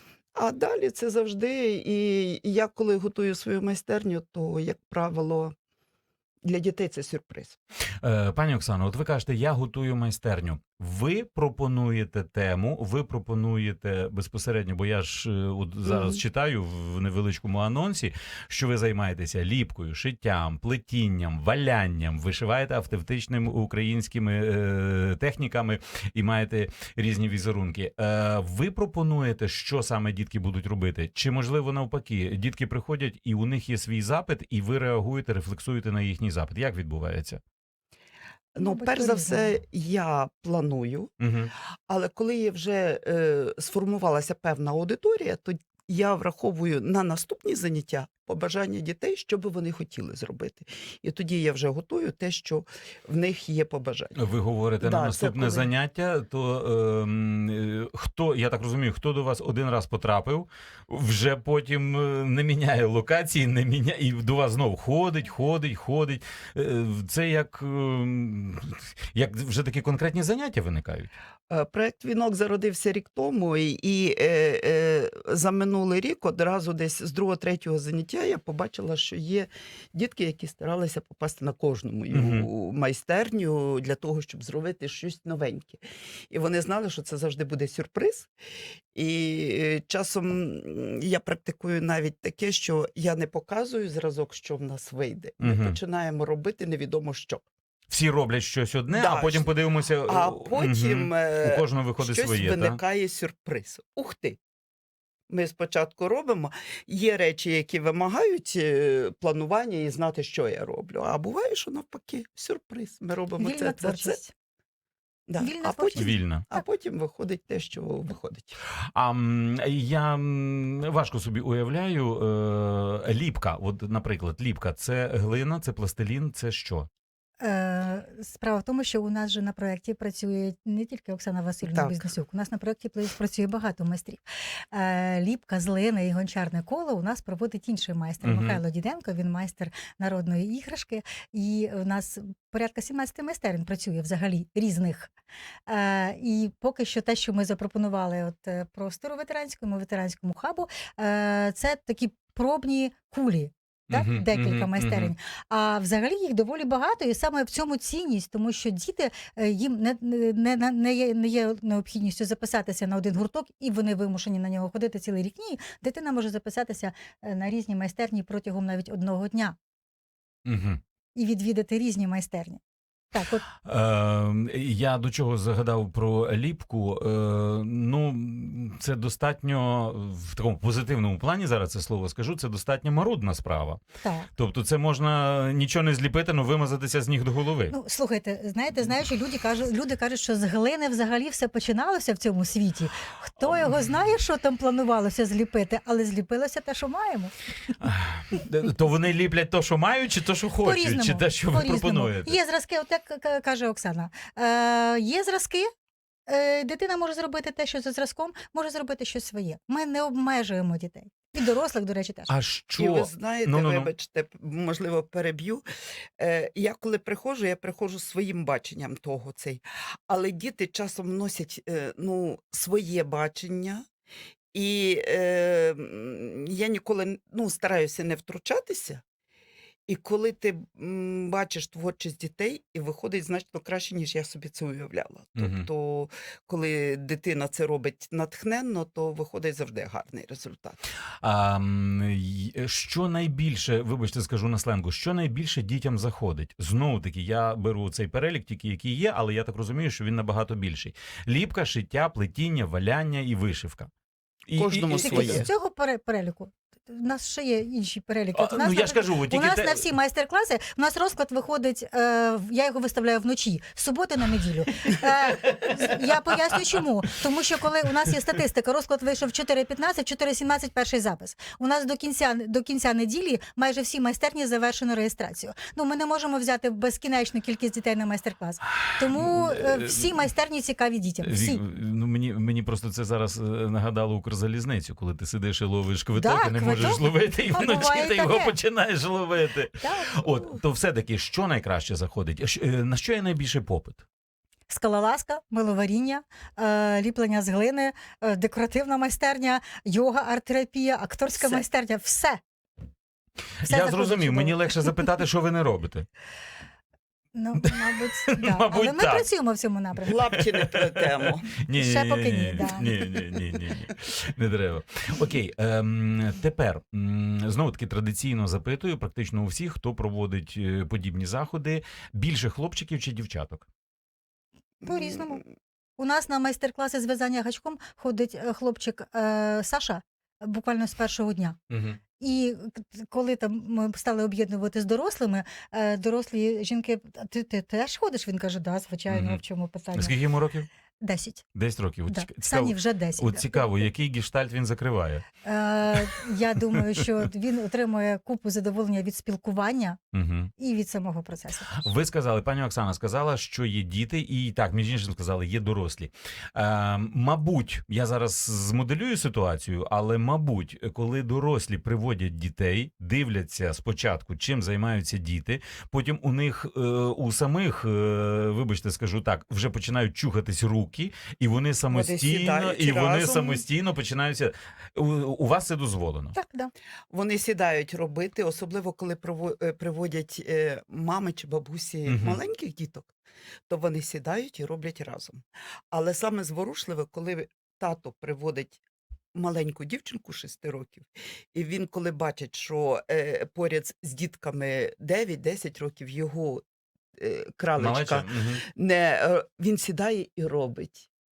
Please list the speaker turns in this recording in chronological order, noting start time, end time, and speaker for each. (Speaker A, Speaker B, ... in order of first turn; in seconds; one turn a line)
Speaker A: 0.3-5.5
Speaker A: 6.4-7.6
Speaker B: 8.0-37.4
Speaker A: 15.8-16.2
Speaker C: 38.6-39.5
Speaker A: 38.6-41.1
Speaker B: 41.2-41.5
Speaker A: 41.9-54.2
Speaker B: 54.2-71.1
Speaker A: 54.8-55.7
Speaker A: 71.5-88.3
Speaker B: 82.1-82.5
Speaker A: 88.9-97.4
Speaker B: 95.4-95.8
Speaker B: 97.9-102.8
Speaker A: 98.9-99.5
Speaker A: 100.1-104.4
Speaker A: 105.3-114.2
Speaker C: 113.4-114.3
Speaker A: 115.3-118.6
Speaker C: 115.4-116.6
Speaker B: 116.0-116.4
Speaker B: 119.0-126.9
Speaker C: 127.4-145.1
Speaker A: 131.6-132.1
Speaker B: 138.2-138.6
Speaker C: 145.7-169.6
Speaker B: 153.9-155.1
Speaker B: 170.4-170.8
Speaker C: 171.2-172.6
Speaker C: 173.1-173.4
Speaker B: 173.7-183.8
Speaker C: 184.0-184.3
Speaker B: 184.4-187.8
Speaker C: 187.7-197.3
Speaker B: 197.8-202.4
Speaker C: 200.6-205.7
Speaker C: 206.3-212.3
Speaker B: 212.3-213.9
Speaker A: 212.8-215.6
Speaker A: 216.2-223.8
Speaker A: 224.5-229.0
Speaker A: 229.9-240.8
Speaker B: 235.4-235.7
Speaker B: 241.2-253.9
Speaker B: 254.5-255.5
Speaker A: 254.6-255.5
Speaker C: 255.0-281.6
Speaker B: 258.3-259.9
Speaker B: 265.4-266.1
Speaker B: 279.0-280.1
Speaker B: 281.2-294.0
Speaker C: 286.1-288.6
Speaker C: 289.8-290.2
Speaker C: 294.7-302.4
Speaker A: 301.4-301.6
Speaker B: 303.6-306.1
Speaker C: 303.6-305.0
Speaker C: 307.3-310.3
Speaker B: 307.6-309.3
Speaker A: 310.1-311.5
Speaker B: 310.4-323.6
Speaker C: 311.7-313.3
Speaker A: 324.8-325.4
Speaker C: 324.8-325.4
Speaker C: 326.0-331.6
Speaker B: 331.7-332.0
Speaker C: 332.2-340.2
Speaker B: 339.1-339.4
Speaker B: 339.9-340.7
Speaker C: 341.0-341.4
Speaker B: 341.6-345.3
Speaker C: 342.1-343.9
Speaker C: 345.4-350.0
Speaker B: 350.1-350.5
Speaker C: 350.6-351.9
Speaker B: 351.7-376.4
Speaker A: 371.9-373.6
Speaker C: 376.3-376.7
Speaker A: 377.1-383.1
Speaker B: 382.1-382.4
Speaker A: 383.7-388.8
Speaker A: 389.4-396.6
Speaker A: 397.2-401.1
Speaker B: 397.8-398.6